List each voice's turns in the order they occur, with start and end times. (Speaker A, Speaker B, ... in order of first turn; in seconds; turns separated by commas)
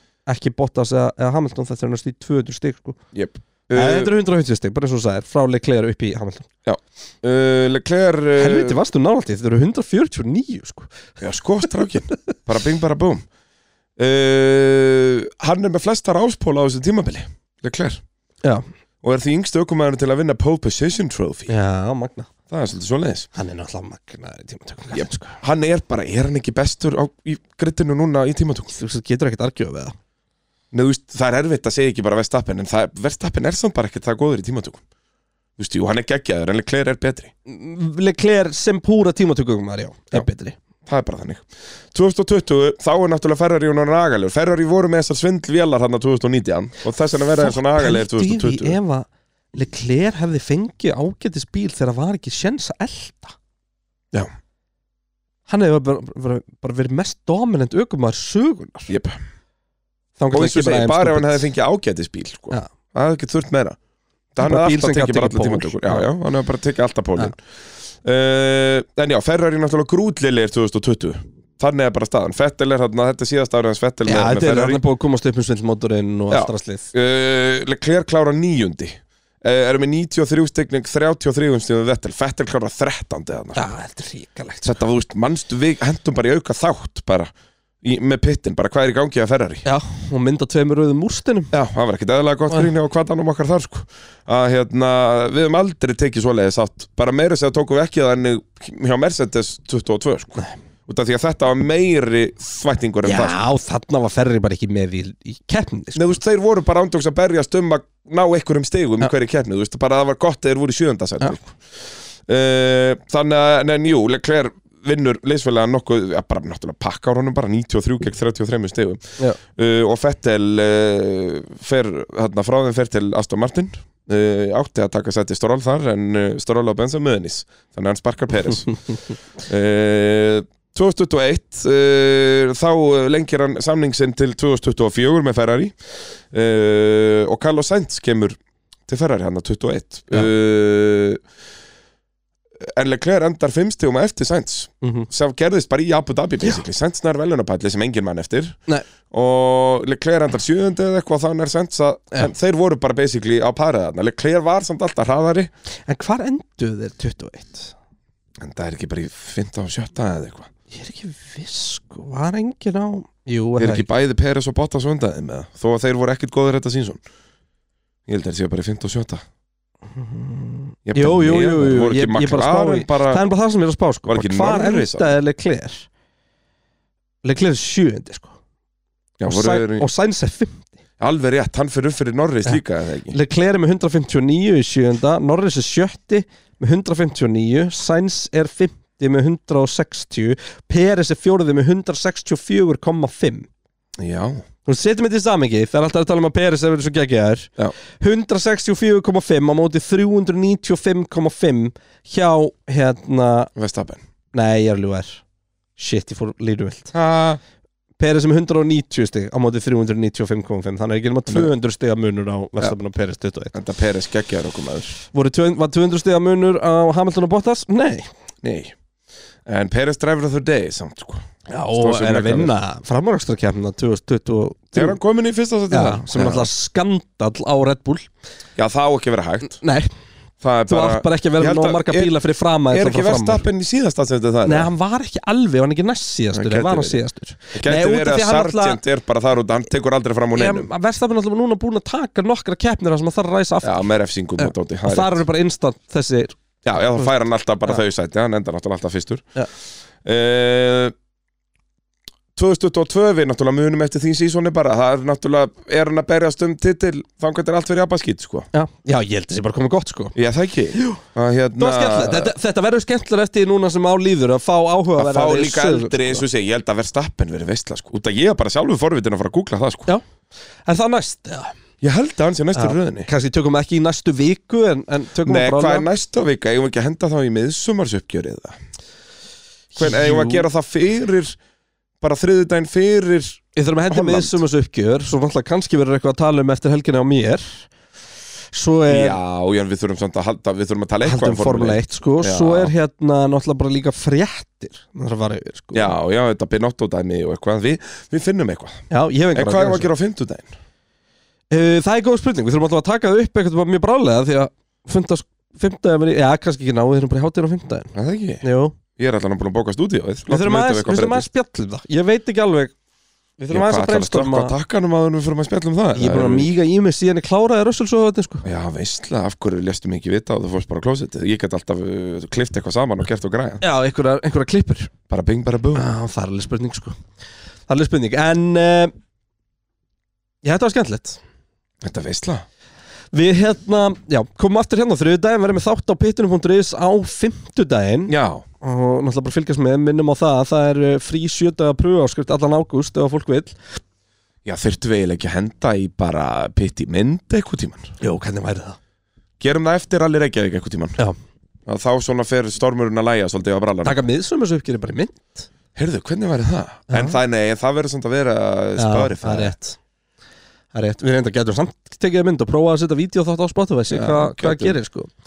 Speaker A: 0.2-3.0, Speaker B: 3.1-4.1, Speaker A: 3.7-6.5, Speaker B: 6.7-8.8, Speaker A: 8.4-11.0, Speaker B: 11.2-13.2, Speaker B: 14.0-18.0, Speaker B: 19.0-21.5, Speaker A: 21.5-22.3, Speaker B: 22.5-23.3, Speaker A: 23.3-25.4, Speaker B: 24.9-28.7, Speaker A: 28.7-29.9, Speaker B: 30.7-34.8, Speaker B: 35.6-37.3, Speaker A: 37.5-40.5, Speaker B: 40.9-48.8, Speaker A: 47.4-53.4, Speaker A: 55.5-58.9, Speaker B: 58.9-59.2, Speaker A: 60.2-61.5, Speaker B: 60.3-63.8, Speaker B: 64.3-67.3, Speaker A: 64.4-66.1, Speaker B: 68.0-74.8, Speaker A: 74.0-76.9, Speaker B: 76.3-83.7, Speaker A: 83.5-84.8, Speaker B: 84.6-89.6, Speaker A: 89.6-91.5, Speaker B: 91.5-103.4, Speaker A: 103.0-106.2, Speaker B: 105.9-128.8, Speaker B: 129.4-135.8, Speaker B: 136.3-141.2, Speaker B: 142.7-148.6, Speaker A: 144.8-145.1, Speaker B: 149.1-155.5, Speaker A: 155.9-157.7, Speaker B: 158.4-160.5, Speaker A: 160.7-163.8, Speaker B: 163.6-167.0, Speaker B: 168.1-169.2, Speaker A: 169.9-175.9, Speaker B: 170.9-173.2, Speaker B: 174.1-175.1, Speaker A: 177.2-178.3, Speaker B: 179.2-179.9, Speaker A: 179.2-180.8, Speaker B: 181.0-183.2, Speaker A: 183.1-193.5, Speaker B: 194.0-194.4, Speaker A: 194.6-203.5, Speaker B: 203.6-204.0, Speaker A: 204.3-205.2, Speaker A: 205.8-206.9, Speaker B: 206.9-207.4, Speaker A: 208.0-213.6, Speaker B: 213.5-215.0, Speaker A: 215.1-218.1, Speaker B: 218.4-218.7, Speaker B: 219.4-222.5, Speaker A: 221.5-224.9, Speaker B: 224.7-226.5, Speaker A: 225.7-228.1, Speaker B: 228.6-229.6, Speaker A: 229.4-229.9, Speaker B: 230.4-232.1, Speaker A: 230.7-233.4, Speaker B: 232.7-234.7, Speaker A: 234.4-238.8, Speaker B: 236.3-237.0, Speaker B: 237.5-240.7, Speaker A: 240.3-246.4, Speaker B: 243.6-245.2, Speaker B: 246.6-249.3, Speaker B: 250.0-250.9, Speaker B: 252.3-258.5, Speaker A: 258.5-260.1, Speaker B: 260.1-262.3, Speaker A: 260.7-261.0, Speaker A: 261.6-266.2, Speaker B: 264.9-269.9, Speaker A: 270.6-271.5, Speaker B: 271.8-273.1, Speaker A: 272.5-275.9, Speaker B: 275.2-278.6, Speaker B: 279.7-281.4, Speaker A: 279.8-280.5, Speaker B: 282.0-284.4, Speaker A: 283.6-287.7, Speaker A: 288.5-289.2, Speaker B: 288.9-292.7, Speaker A: 291.0-296.0, Speaker B: 295.7-300.5, Speaker A: 298.9-299.9, Speaker A: 301.5-308.8, Speaker B: 307.9-308.4, Speaker B: 308.9-311.3, Speaker A: 310.3-312.7, Speaker A: 313.4-314.6, Speaker B: 313.5-316.5, Speaker A: 315.9-318.4, Speaker B: 318.4-323.6, Speaker A: 323.6-324.9, Speaker B: 325.1-325.9, Speaker A: 325.7-326.9, Speaker A: 327.7-328.9, Speaker A: 330.4-331.2, Speaker B: 331.8-332.4, Speaker A: 333.1-343.6, Speaker B: 338.1-338.4, Speaker B: 344.4-347.9, Speaker A: 348.0-348.8, Speaker B: 349.4-351.0, Speaker B: 351.7-354.0, Speaker A: 353.8-355.5, Speaker B: 355.7-359.5, Speaker A: 356.9-357.2, Speaker A: 358.8-359.8, Speaker A: 360.7-365.1, Speaker B: 363.9-364.8